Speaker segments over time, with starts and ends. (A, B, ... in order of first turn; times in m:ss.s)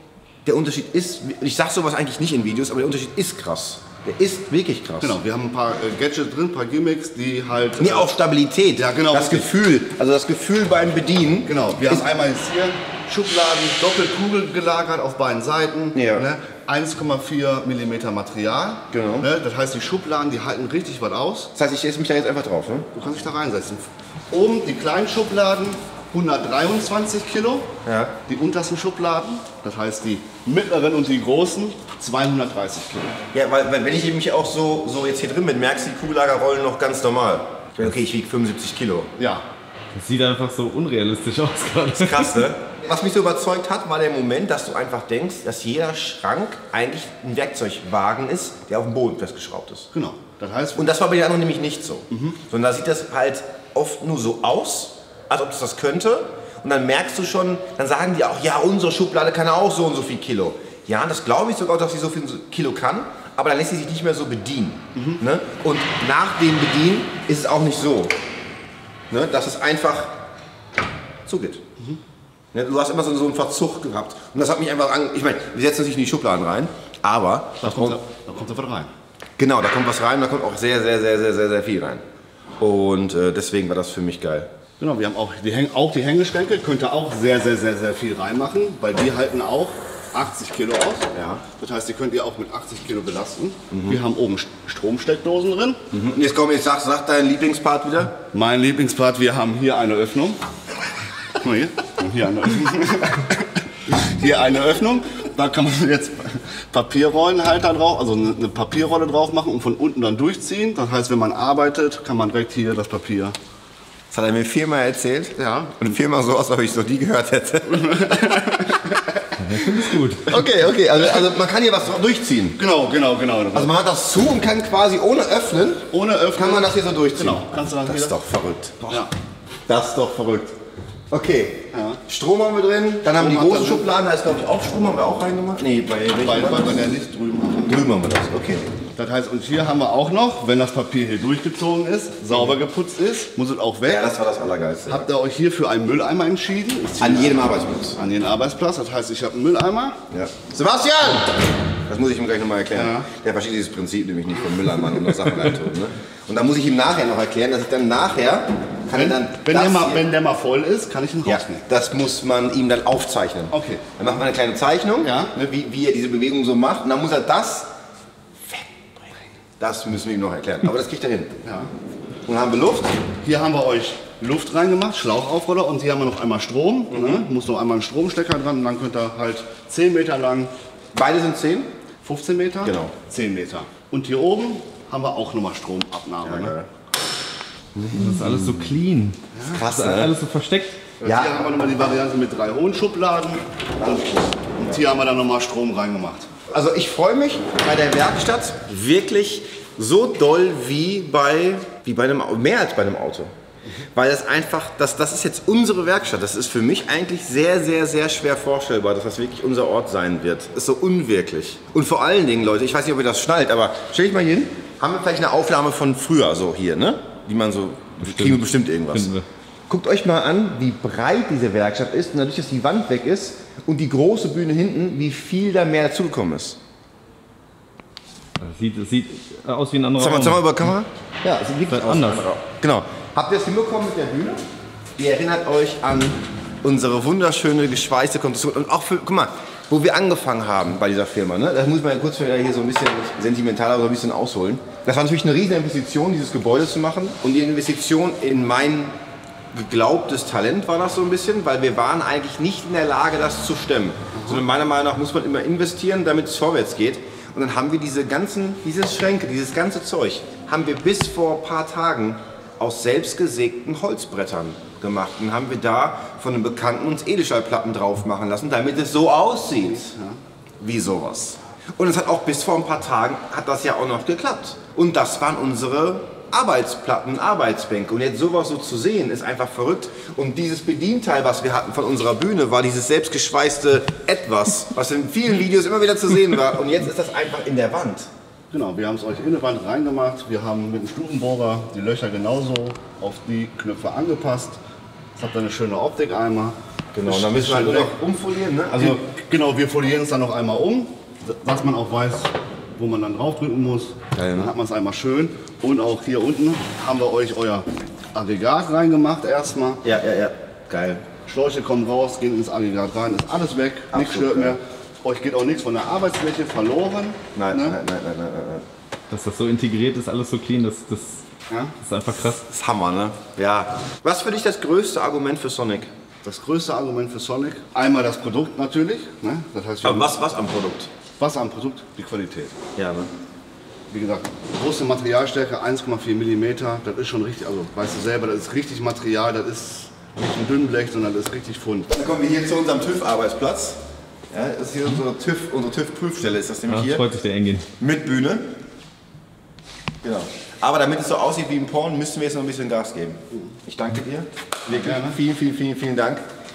0:00.4-0:05.2 A
0:05.0-0:08.1 B
0:07.8-0:12.1 A
0:08.8-0:09.5 B
0:11.4-0:21.5 B
0:15.9-0:16.2 A
0:18.9-0:19.3 A
0:21.5-0:22.9 A
0:22.9-0:27.7 B
0:27.8-0:28.1 A
0:28.3-0:33.2 B
0:33.3-0:39.1 A
0:39.2-0:39.4 B
0:39.9-0:42.4 C
0:42.0-0:49.9 A
0:49.9-0:50.9 B
0:50.8-1:08.1 A
0:52.1-0:52.4 B
1:04.9-1:05.2 B
1:09.1-1:10.1 A
1:11.2-1:11.6 A
1:12.5-1:18.0 A
1:17.6-1:18.9 B
1:19.4-1:22.0 A
1:22.6-1:24.5 A
1:24.8-1:35.8 B
1:31.1-1:31.4 A
1:33.7-1:34.0 A
1:35.9-1:38.2 A
1:38.3-1:40.4 B
1:41.4-1:53.3 B
1:54.1-1:58.7 A
1:55.4-1:55.8 B
1:57.7-1:59.1 B
1:59.4-2:00.3 C
2:00.3-2:02.6 A
2:02.6-2:03.7 B
2:03.5-2:09.0 A
2:05.9-2:08.2 B
2:09.7-2:10.5 A
2:11.1-2:16.9 A
2:11.7-2:12.0 B
2:13.1-2:13.8 B
2:16.2-2:17.8 B
2:17.6-2:18.7 A
2:18.9-2:24.1 B
2:23.8-2:25.1 A
2:24.9-2:30.0 B
2:27.0-2:28.0 A
2:30.1-2:40.0 A
2:32.7-2:33.1 B
2:38.9-2:41.6 B
2:41.2-2:47.7 A
2:43.5-2:44.2 B
2:45.0-2:45.3 B
2:48.4-2:51.4 A
2:51.4-2:51.7 B
2:52.2-2:52.9 A
2:53.2-3:00.5 B
2:56.9-2:57.2 A
3:00.9-3:01.7 A
3:02.0-3:06.5 B
3:02.6-3:02.9 A
3:06.2-3:06.7 A
3:07.8-3:08.7 A
3:08.0-3:10.8 C
3:09.3-3:09.6 B
3:09.5-3:10.1 A
3:11.0-3:16.3 B
3:11.0-3:11.4 A
3:13.8-3:14.7 A
3:16.5-3:23.3 A
3:23.9-3:39.1 A
3:38.0-3:39.2 C
3:39.7-3:46.6 A
3:48.4-3:50.6 C
3:50.0-3:54.4 A
3:51.7-3:52.3 C
3:55.0-4:08.9 A
4:09.5-4:29.9 A
4:14.1-4:14.4 B
4:29.6-4:30.2 B
4:30.6-4:48.1 A
4:48.5-4:54.6 B
4:55.2-4:57.9 B
4:56.9-4:59.0 A
4:58.7-5:09.8 B
5:04.1-5:04.5 A
5:09.8-5:11.0 A
5:11.2-5:17.8 B
5:13.9-5:14.6 A
5:17.3-5:18.6 A
5:19.1-5:21.2 C
5:21.8-5:22.4 C
5:22.5-5:25.9 A
5:26.2-5:30.1 B
5:29.8-5:30.9 A
5:31.2-5:32.6 B
5:32.8-5:33.1 A
5:33.9-5:41.9 B
5:41.9-5:43.8 A
5:44.3-5:47.0 A
5:46.7-5:47.7 C
5:47.8-5:48.4 A
5:50.0-5:56.2 A
5:54.7-5:55.2 B